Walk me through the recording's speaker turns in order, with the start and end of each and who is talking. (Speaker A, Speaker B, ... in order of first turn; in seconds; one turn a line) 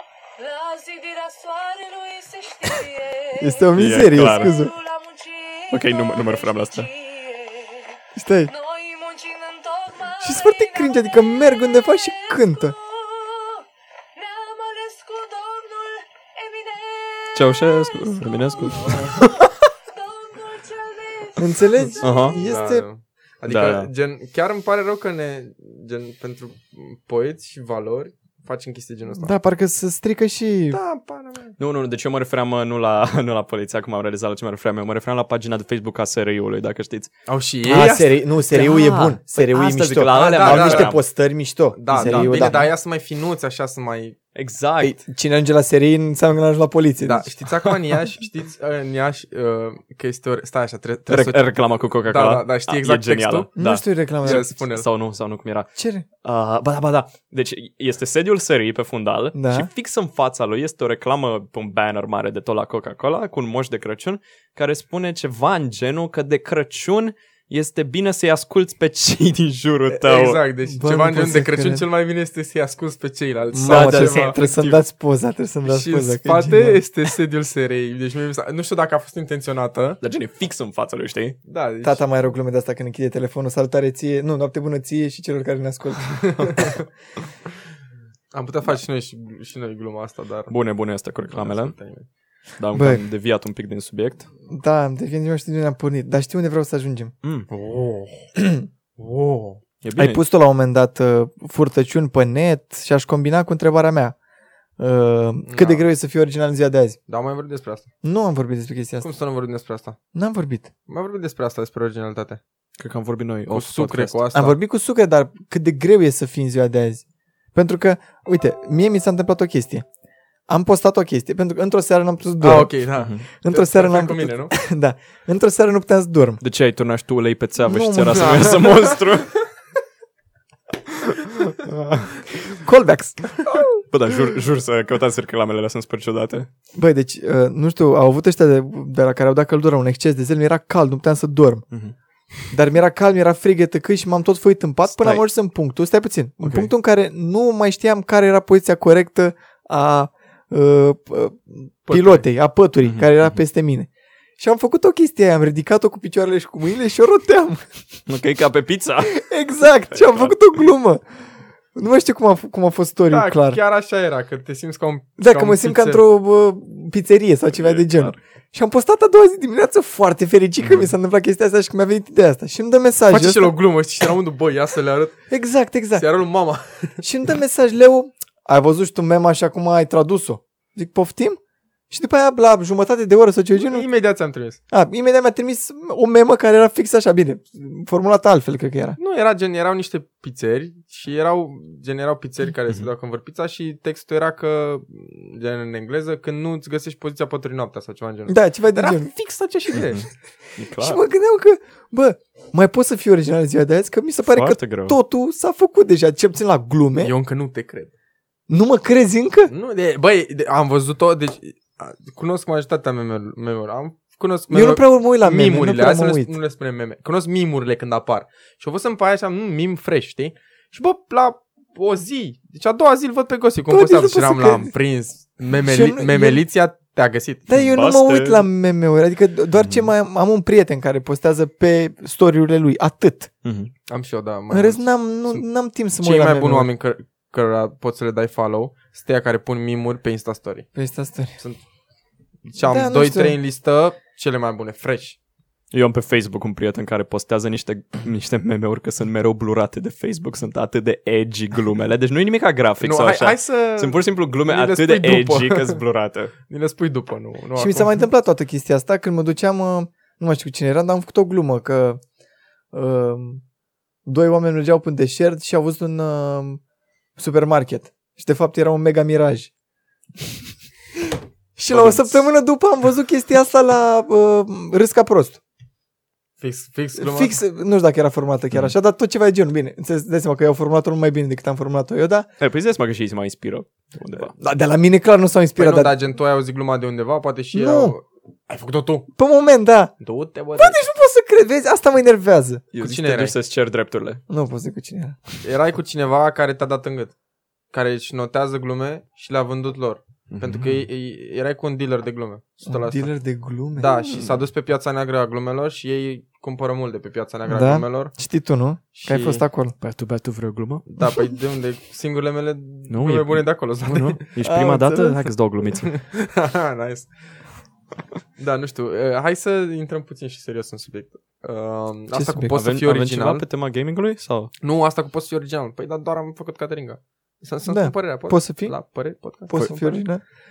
Speaker A: 0.4-22.4
Speaker B: 3.4-4.7
Speaker C: 3.8-4.6
Speaker C: 5.7-6.9
Speaker B: 8.2-8.5
Speaker B: 10.2-12.8
Speaker C: 17.4-19.5
Speaker B: 21.4-22.9
Speaker C: 22.0-22.4
Speaker D: 22.4-29.3
Speaker C: 23.5-23.9
Speaker B: 29.2-30.8
Speaker D: 30.7-31.6
Speaker C: 31.6-37.1
Speaker D: 37.3-38.2
Speaker B: 37.7-42.7
Speaker C: 38.5-41.0
Speaker D: 40.2-41.0
Speaker D: 41.7-44.2
Speaker C: 41.9-42.7
Speaker C: 44.4-45.0
Speaker B: 44.8-47.3
Speaker D: 47.0-53.5
Speaker C: 51.1-55.7
Speaker B: 53.6-54.5
Speaker D: 54.2-54.9
Speaker B: 55.8-56.0
Speaker C: 56.2-70.4
Speaker B: 59.4-59.7
Speaker D: 69.9-74.8
Speaker B: 70.7-71.8
Speaker B: 73.5-76.8
Speaker C: 73.6-74.4
Speaker D: 75.6-80.0
Speaker C: 80.0-81.4
Speaker D: 81.5-82.0
Speaker B: 81.8-86.8
Speaker D: 86.1-86.8
Speaker D: 88.3-90.5
Speaker C: 90.5-91.8
Speaker D: 91.3-92.1
Speaker C: 92.6-94.3
Speaker B: 92.7-93.0
Speaker B: 94.5-97.1
Speaker C: 97.2-97.5
Speaker D: 97.5-98.3
Speaker B: 98.4-98.7
Speaker D: 99.0-99.6
Speaker C: 99.8-100.2
Speaker B: 100.0-104.2
Speaker B: 104.8-107.0
Speaker D: 105.5-105.9
Speaker D: 107.1-107.9
Speaker B: 108.0-109.1
Speaker D: 109.0-110.0
Speaker B: 110.1-110.7
Speaker D: 110.9-112.4
Speaker C: 112.8-114.2
Speaker D: 113.5-114.6
Speaker B: 114.3-117.0
Speaker B: 117.5-119.8
Speaker B: 120.5-122.7
Speaker D: 122.4-124.5
Speaker C: 123.0-123.2
Speaker B: 123.4-126.4
Speaker C: 126.4-129.4
Speaker B: 127.6-128.7
Speaker D: 128.2-129.0
Speaker C: 131.7-132.2
Speaker B: 132.5-133.8
Speaker C: 133.9-136.5
Speaker B: 136.8-141.7
Speaker B: 142.5-157.7
Speaker C: 144.9-145.2
Speaker C: 146.4-146.7
Speaker D: 151.9-152.2
Speaker C: 152.8-153.4
Speaker C: 158.1-159.3
Speaker B: 159.0-161.0
Speaker C: 159.9-160.5
Speaker B: 161.8-163.6
Speaker D: 163.1-166.0
Speaker B: 165.2-173.5
Speaker C: 167.5-168.2
Speaker C: 170.6-170.9
Speaker D: 173.1-175.2
Speaker B: 175.3-176.1
Speaker D: 175.9-177.0
Speaker B: 177.0-181.4
Speaker B: 181.9-183.9
Speaker D: 183.6-184.6
Speaker B: 184.7-189.0
Speaker D: 189.0-200.1
Speaker B: 198.3-199.1
Speaker C: 199.7-200.1
Speaker C: 200.6-201.0
Speaker B: 200.8-207.1
Speaker C: 204.2-205.0
Speaker D: 207.0-207.9
Speaker B: 208.5-209.5
Speaker D: 209.5-227.5
Speaker B: 214.5-216.3
Speaker B: 223.7-224.7
Speaker B: 225.6-226.4
Speaker B: 227.5-233.3
Speaker C: 227.5-228.4
Speaker C: 229.5-229.9
Speaker C: 233.4-233.7
Speaker D: 233.9-235.4
Speaker B: 234.5-236.7
Speaker D: 236.0-240.7
Speaker B: 240.8-241.4
Speaker D: 242.5-245.2
Speaker B: 242.6-243.4
Speaker C: 245.7-256.3
Speaker D: 252.8-255.8
Speaker D: 256.5-258.0
Speaker B: 257.6-262.0
Speaker B: 262.7-263.4
Speaker B: 264.1-266.6
Speaker B: 267.2-269.5
Speaker B: 271.1-275.4
Speaker C: 271.7-272.2
Speaker D: 276.4-277.4
Speaker B: 277.0-282.3
Speaker C: 282.4-284.3
Speaker B: 284.2-285.9
Speaker D: 285.6-289.1
Speaker B: 287.5-288.0
Speaker B: 289.2-289.9
Speaker D: 290.0-290.8
Speaker B: 290.6-292.7
Speaker C: 292.7-294.2
Speaker D: 292.8-293.4
Speaker B: 294.3-295.4
Speaker D: 295.4-297.1
Speaker D: 297.7-303.1
Speaker C: 300.3-300.9
Speaker B: 302.7-304.3
Speaker D: 303.8-308.1
Speaker B: 307.5-309.8
Speaker D: 308.9-309.4
Speaker C: 309.8-310.8
Speaker D: 310.9-314.2
Speaker C: 312.9-316.0
Speaker B: 314.4-315.3
Speaker D: 315.8-317.1
Speaker D: 318.4-323.4
Speaker B: 322.1-322.5
Speaker C: 322.5-324.5
Speaker D: 324.6-330.1
Speaker B: 327.7-328.8
Speaker B: 329.5-330.2